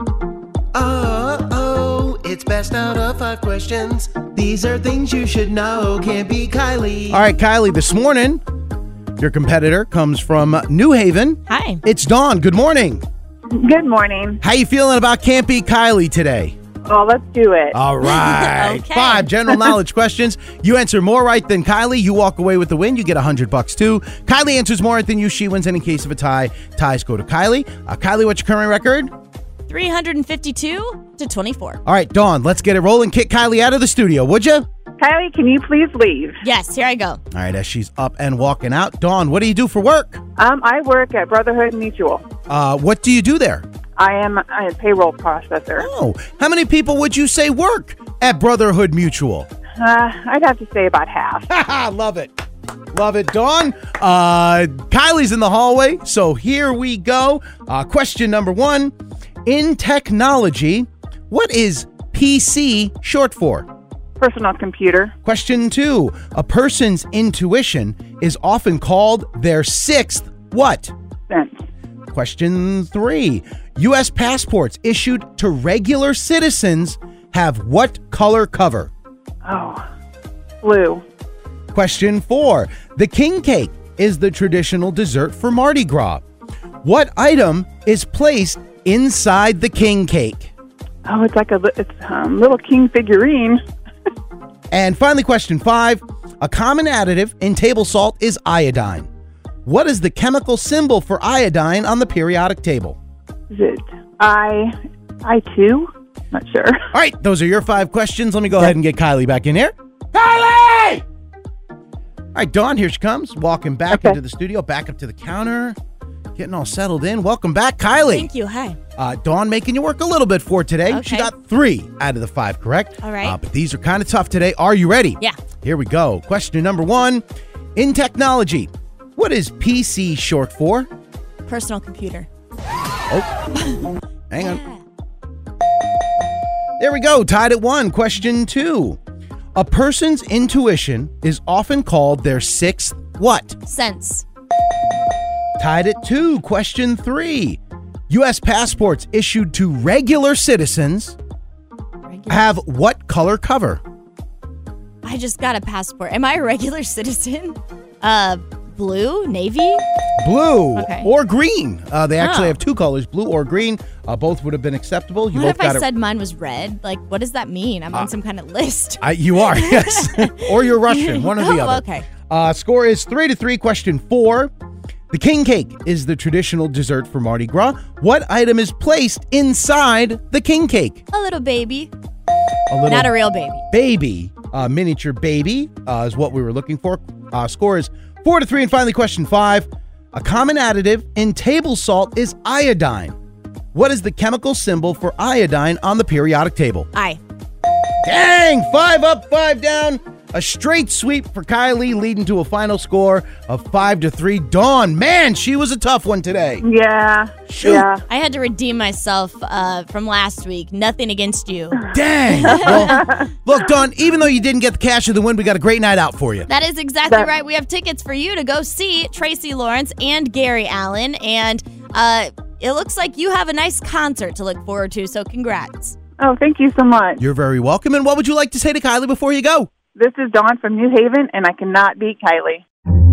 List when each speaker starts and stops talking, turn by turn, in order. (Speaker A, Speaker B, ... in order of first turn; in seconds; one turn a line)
Speaker A: 0.7-7.2
Speaker B: 7.1-8.4
Speaker B: 9.2-13.0
Speaker C: 11.5-11.8
Speaker D: 13.5-14.4
Speaker B: 14.4-16.5
Speaker D: 16.9-17.8
Speaker B: 17.7-29.1
Speaker C: 18.0-19.3
Speaker C: 29.7-31.8
Speaker B: 31.9-34.6
Speaker D: 35.0-36.4
Speaker C: 36.4-37.2
Speaker B: 37.3-40.2
Speaker D: 40.4-42.2
Speaker B: 42.5-43.6
Speaker D: 44.0-45.9
Speaker B: 45.8-49.5
Speaker D: 49.8-51.5
Speaker B: 51.5-52.3
Speaker B: 52.9-58.9
Speaker B: 59.5-63.7
Speaker D: 64.2-65.1
Speaker B: 65.2-70.9
Speaker D: 71.3-71.6
Speaker B: 72.1-78.9
Speaker D: 79.4-79.8
Speaker D: 80.6-81.0
Speaker B: 81.7-86.2
Speaker B: 86.8-90.5
Speaker D: 91.0-93.6
Speaker B: 94.7-99.1
Speaker B: 99.7-103.0
Speaker D: 103.5-106.8
Speaker B: 106.9-111.0
Speaker B: 112.3-115.7
Speaker D: 113.9-114.2
Speaker B: 116.3-118.3
Speaker C: 118.1-118.8
Speaker B: 119.0-127.2
Speaker C: 120.9-121.3
Speaker C: 123.0-123.4
Speaker B: 127.8-130.9
Speaker C: 131.4-132.3
Speaker B: 134.3-134.6
Speaker C: 134.3-134.8
Speaker B: 136.8-139.0
Speaker B: 139.5-143.6
Speaker C: 143.6-144.2
Speaker B: 145.6-151.2
Speaker C: 152.1-152.5
Speaker B: 152.3-153.8
Speaker C: 155.0-159.8
Speaker B: 160.2-165.8
Speaker C: 160.8-161.1
Speaker C: 162.2-162.6
Speaker C: 165.3-172.1
Speaker B: 169.0-174.5
Speaker B: 175.1-181.0
Speaker C: 181.1-181.9
Speaker B: 182.7-183.1
Speaker C: 182.9-183.6
Speaker B: 183.7-193.1
Speaker B: 193.7-196.9
Speaker C: 196.9-197.2
Speaker B: 198.0-206.6
Speaker D: 206.6-208.0
Speaker B: 207.5-207.9
Speaker C: 208.1-213.2
Speaker B: 211.9-216.5
Speaker C: 216.5-225.9
Speaker D: 226.2-227.2
Speaker B: 227.2-229.7
Speaker D: 229.9-232.6